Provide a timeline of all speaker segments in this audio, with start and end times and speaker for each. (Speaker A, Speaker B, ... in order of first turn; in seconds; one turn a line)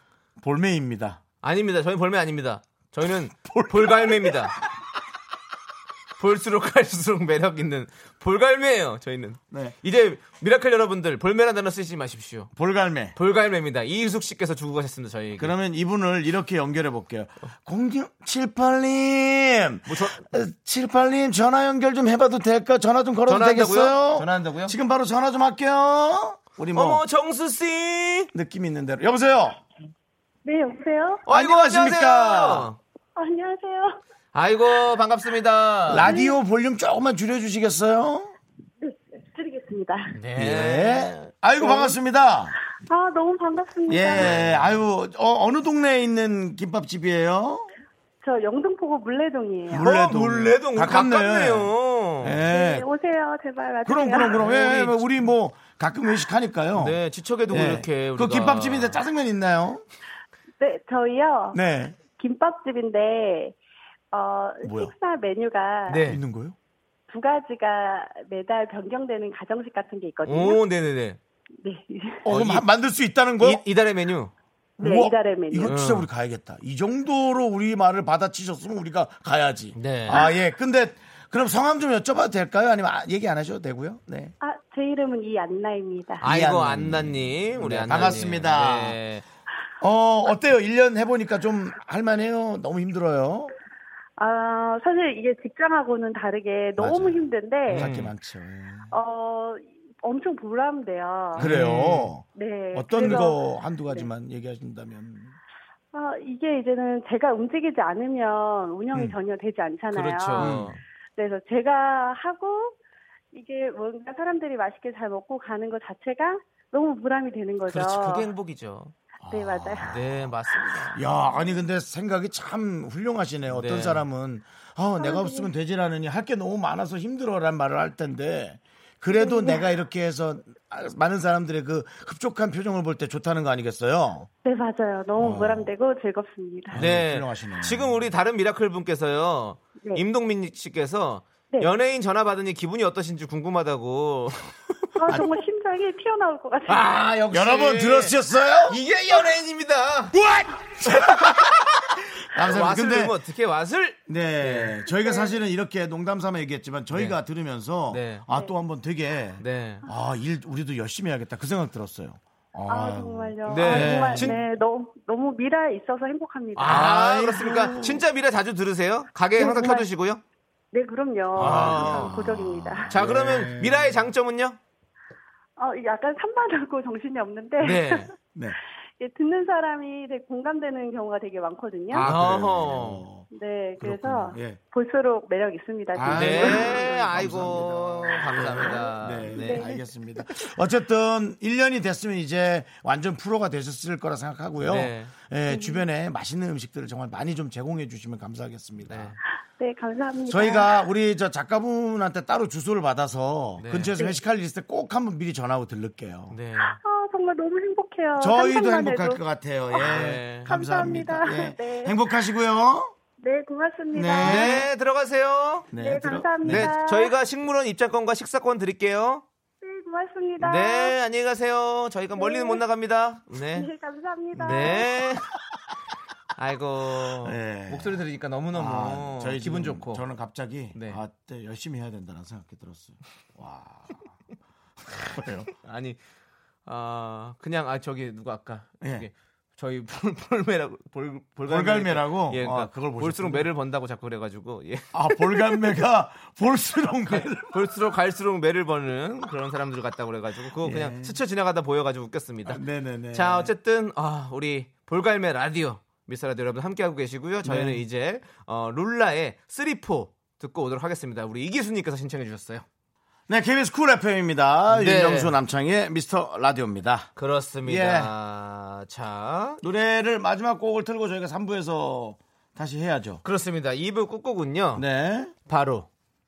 Speaker A: 0.4-1.2
Speaker B: 1.4-4.6
Speaker A: 3.3-4.5
Speaker B: 6.2-12.5
Speaker A: 9.5-9.8
Speaker A: 12.6-13.1
Speaker B: 13.1-15.5
Speaker A: 15.4-27.0
Speaker B: 19.9-20.2
Speaker B: 23.3-24.7
Speaker B: 26.7-28.3
Speaker A: 28.3-29.6
Speaker C: 30.4-31.2
Speaker B: 31.2-32.8
Speaker A: 31.3-32.7
Speaker C: 33.1-34.0
Speaker B: 34.3-36.1
Speaker A: 35.9-38.3
Speaker C: 36.0-36.4
Speaker C: 38.8-40.1
Speaker B: 40.1-41.3
Speaker A: 40.3-42.5
Speaker C: 41.6-42.0
Speaker C: 42.9-44.4
Speaker A: 43.9-47.7
Speaker B: 44.1-44.8
Speaker C: 48.2-49.9
Speaker A: 49.7-52.9
Speaker B: 49.8-52.4
Speaker C: 52.5-54.4
Speaker A: 53.8-59.8
Speaker B: 54.3-55.0
Speaker B: 56.7-59.0
Speaker C: 60.6-61.6
Speaker A: 61.5-62.0
Speaker C: 62.1-63.5
Speaker C: 64.1-66.1
Speaker A: 64.6-64.9
Speaker B: 65.9-66.2
Speaker A: 66.0-66.5
Speaker C: 67.1-70.6
Speaker B: 70.2-71.2
Speaker C: 71.6-72.2
Speaker A: 72.2-73.6
Speaker B: 72.2-72.7
Speaker B: 73.4-74.3
Speaker C: 74.8-75.8
Speaker A: 74.8-84.3
Speaker B: 75.6-76.1
Speaker B: 79.7-80.2
Speaker C: 84.4-86.2
Speaker A: 86.2-89.0
Speaker B: 86.2-89.2
Speaker A: 89.8-93.5
Speaker C: 94.2-97.9
Speaker A: 96.8-98.9
Speaker B: 97.7-98.1
Speaker C: 98.9-101.5
Speaker B: 101.3-102.1
Speaker A: 101.4-105.3
Speaker C: 102.3-104.1
Speaker C: 105.9-110.7
Speaker A: 108.9-109.2
Speaker B: 109.9-110.8
Speaker A: 110.4-110.8
Speaker C: 111.2-112.8
Speaker C: 113.3-118.3
Speaker B: 117.7-118.9
Speaker A: 119.2-120.3
Speaker C: 119.3-120.0
Speaker B: 119.9-121.0
Speaker A: 120.9-134.3
Speaker B: 123.5-124.0
Speaker C: 125.0-125.5
Speaker C: 129.1-129.6
Speaker C: 134.4-136.8
Speaker A: 135.2-135.7
Speaker A: 136.7-138.1
Speaker B: 136.7-144.5
Speaker C: 145.0-146.9
Speaker B: 146.7-150.2
Speaker A: 147.3-148.8
Speaker A: 150.1-151.6
Speaker B: 150.8-151.6
Speaker A: 152.3-153.1
Speaker B: 152.3-154.8
Speaker A: 154.1-164.4
Speaker C: 155.0-155.3
Speaker B: 156.9-157.2
Speaker B: 157.9-158.2
Speaker B: 159.4-159.8
Speaker C: 162.7-166.9
Speaker B: 163.4-164.4
Speaker B: 166.5-170.2
Speaker A: 166.6-168.0
Speaker C: 169.4-169.9
Speaker C: 170.7-172.9
Speaker A: 171.3-174.1
Speaker B: 171.4-172.1
Speaker B: 172.9-174.6
Speaker C: 175.6-178.1
Speaker B: 177.6-178.1
Speaker C: 179.0-182.1
Speaker B: 181.9-183.1
Speaker A: 182.0-183.3
Speaker C: 183.3-186.9
Speaker A: 183.8-184.6
Speaker A: 185.9-199.2
Speaker B: 186.1-189.7
Speaker C: 189.2-189.8
Speaker B: 194.6-195.1
Speaker C: 195.5-195.8
Speaker B: 198.8-199.2
Speaker C: 199.6-200.8
Speaker A: 200.3-206.3
Speaker B: 203.6-203.9
Speaker B: 206.3-206.8
Speaker C: 206.6-209.2
Speaker A: 208.2-212.9
Speaker C: 209.8-212.0
Speaker B: 209.8-210.5
Speaker C: 213.2-214.6
Speaker A: 213.9-214.7
Speaker B: 214.2-215.7
Speaker A: 215.7-216.7
Speaker C: 215.7-217.1
Speaker B: 216.4-219.2
Speaker C: 219.6-220.9
Speaker B: 220.4-223.7
Speaker C: 222.1-222.6
Speaker C: 223.5-224.9
Speaker A: 224.3-224.9
Speaker B: 224.4-225.3
Speaker B: 226.3-230.0
Speaker A: 227.1-234.1
Speaker B: 230.7-231.0
Speaker A: 234.9-235.5
Speaker B: 235.6-236.0
Speaker B: 236.6-245.7
Speaker A: 238.8-239.1
Speaker A: 241.4-243.5
Speaker A: 244.9-247.7
Speaker B: 247.1-252.6
Speaker A: 250.6-251.2
Speaker A: 252.4-253.5
Speaker B: 253.1-262.6
Speaker A: 257.4-257.8
Speaker A: 263.3-267.1
Speaker B: 264.7-265.4
Speaker B: 267.1-269.6
Speaker A: 267.6-268.1
Speaker A: 269.6-273.2
Speaker B: 273.2-274.8
Speaker A: 274.7-275.3
Speaker B: 275.5-275.9